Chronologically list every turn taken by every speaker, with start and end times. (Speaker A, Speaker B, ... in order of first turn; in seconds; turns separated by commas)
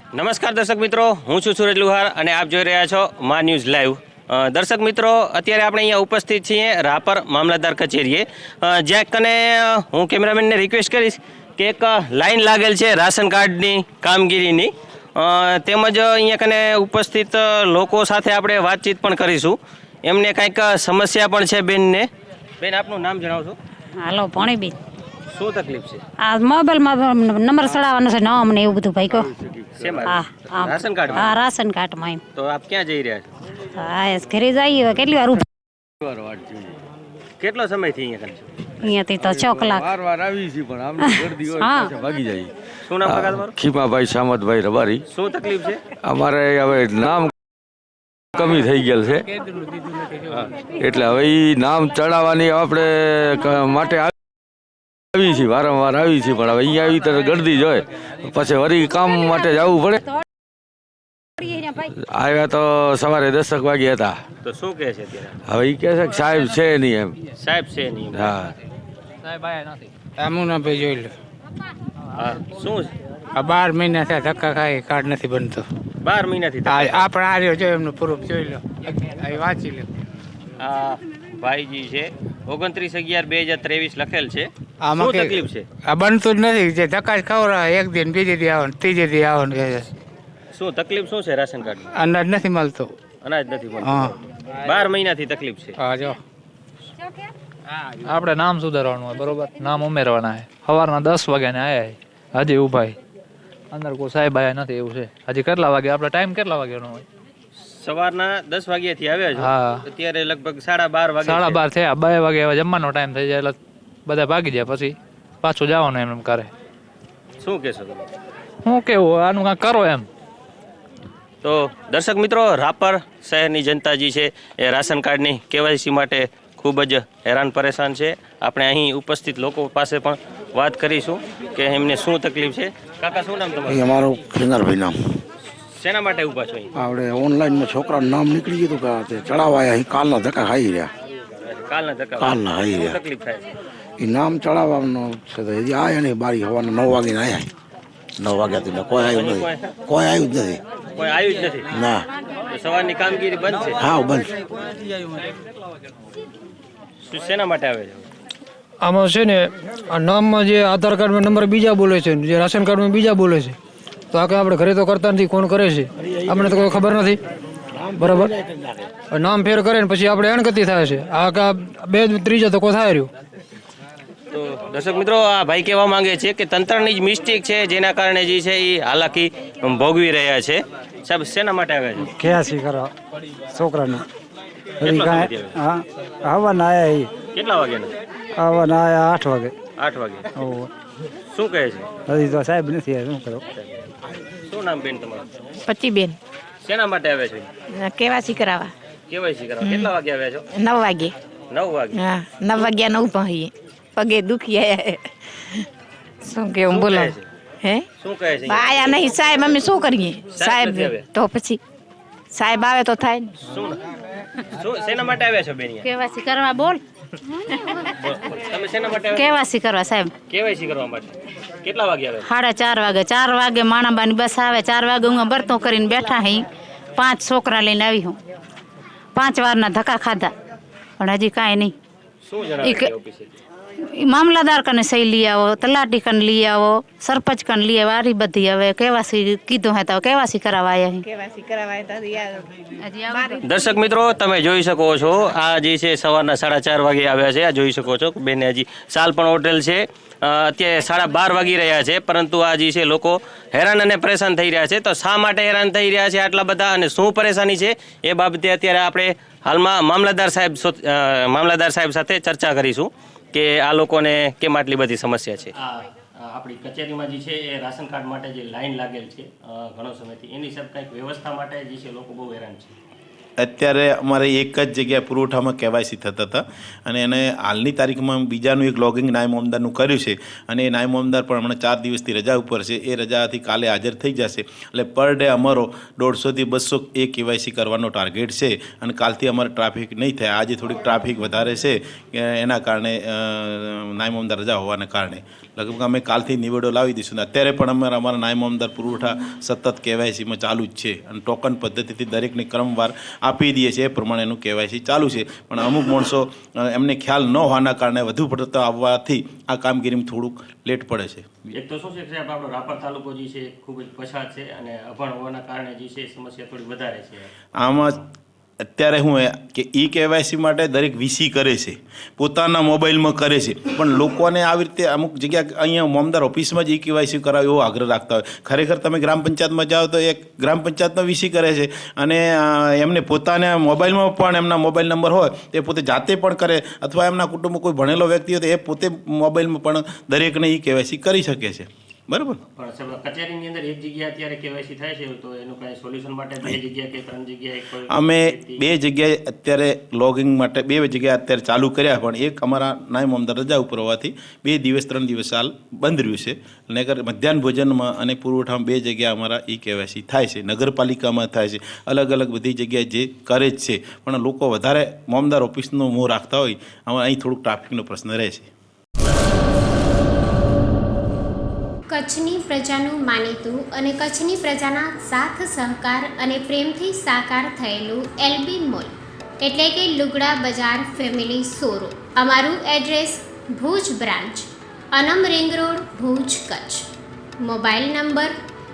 Speaker A: 0.1-22.1, Speaker A: 22.6-23.6, Speaker B: 24.0-24.7, Speaker A: 25.3-26.0, Speaker B: 26.2-29.3, Speaker C: 29.1-30.1, Speaker A: 29.8-31.4, Speaker B: 30.1-32.2, Speaker A: 32.4-33.3, Speaker B: 33.8-35.4, Speaker C: 36.0-36.7, Speaker A: 37.4-38.5, Speaker B: 38.8-39.9, Speaker C: 39.2-42.5, Speaker B: 41.0-41.9, Speaker A: 42.9-43.6, Speaker C: 43.0-45.0, Speaker A: 45.1-45.8, Speaker C: 46.0-47.3, Speaker C: 48.4-49.3, Speaker D: 49.3-50.5, Speaker C: 50.8-54.1, Speaker C: 55.1-60.1, Speaker C: 61.5-64.2, Speaker A: 64.4-65.3, Speaker C: 65.5-67.2, Speaker A: 67.4-68.4, Speaker C: 68.1-68.5, Speaker E: 69.3-69.9, Speaker D: 70.2-71.1, Speaker A: 72.2-72.9, Speaker D: 73.4-75.7, Speaker A: 76.0-77.1, Speaker D: 76.7-79.9, Speaker A: 80.6-85.7, Speaker D: 84.8-89.9, Speaker A: 90.5-91.9, Speaker D: 91.9-92.9, Speaker A: 93.2-95.8, Speaker D: 93.8-94.1, Speaker D: 95.8-96.2, Speaker E: 98.0-103.0, Speaker E: 103.7-107.0, Speaker A: 107.6-111.6, Speaker E: 109.4-109.8, Speaker E: 111.2-116.5, Speaker A: 117.4-118.1, Speaker E: 118.7-120.1, Speaker A: 121.4-133.9, Speaker F: 133.7-135.0, Speaker A: 135.8-136.7, Speaker F: 136.8-140.9, Speaker A: 141.4-143.4, Speaker F: 142.2-143.0, Speaker F: 144.0-147.5, Speaker F: 148.2-150.6, Speaker A: 149.0-149.6, Speaker A: 150.9-151.7, Speaker F: 151.7-152.0, Speaker A: 152.5-153.8, Speaker F: 153.8-154.3, Speaker A: 157.1-158.1, Speaker G: 158.8-163.6, Speaker G: 164.1-166.7, Speaker F: 166.0-166.9, Speaker F: 167.8-168.9, Speaker G: 168.0-168.3, Speaker G: 169.3-173.1, Speaker A: 174.3-182.1, Speaker H: 182.0-182.9, Speaker H: 183.5-184.1, Speaker A: 184.8-185.6, Speaker H: 184.8-187.1, Speaker A: 187.3-187.9, Speaker H: 188.4-189.6, Speaker A: 189.8-190.3, Speaker H: 190.3-190.7, Speaker A: 191.3-191.9, Speaker H: 192.1-193.4, Speaker A: 194.5-195.3, Speaker I: 195.6-196.2, Speaker A: 196.6-197.5, Speaker I: 197.7-198.7, Speaker A: 199.1-200.4, Speaker I: 199.6-199.9, Speaker I: 200.5-201.1, Speaker A: 201.5-202.7, Speaker I: 201.9-205.6, Speaker I: 206.2-207.9, Speaker A: 206.7-207.3, Speaker A: 208.0-209.3, Speaker I: 208.4-211.6, Speaker A: 210.3-211.1, Speaker I: 212.3-213.3, Speaker A: 213.5-213.8, Speaker A: 214.6-215.9, Speaker B: 215.8-216.8, Speaker A: 218.0-219.3, Speaker B: 219.2-220.1, Speaker A: 220.3-222.3, Speaker B: 222.2-226.4, Speaker B: 227.0-228.2, Speaker B: 229.2-230.3, Speaker B: 231.0-231.7, Speaker A: 232.2-233.3, Speaker B: 232.6-232.9, Speaker B: 234.0-241.0, Speaker I: 241.0-242.5, Speaker B: 242.8-243.4, Speaker I: 243.1-243.8, Speaker A: 243.4-272.8, Speaker J: 273.4-311.5, Speaker A: 311.5-318.0, Speaker J: 317.6-318.0, Speaker J: 318.7-342.4, Speaker A: 342.6-348.6, Speaker J: 347.9-368.5, Speaker K: 371.9-386.9, Speaker K: 387.4-388.4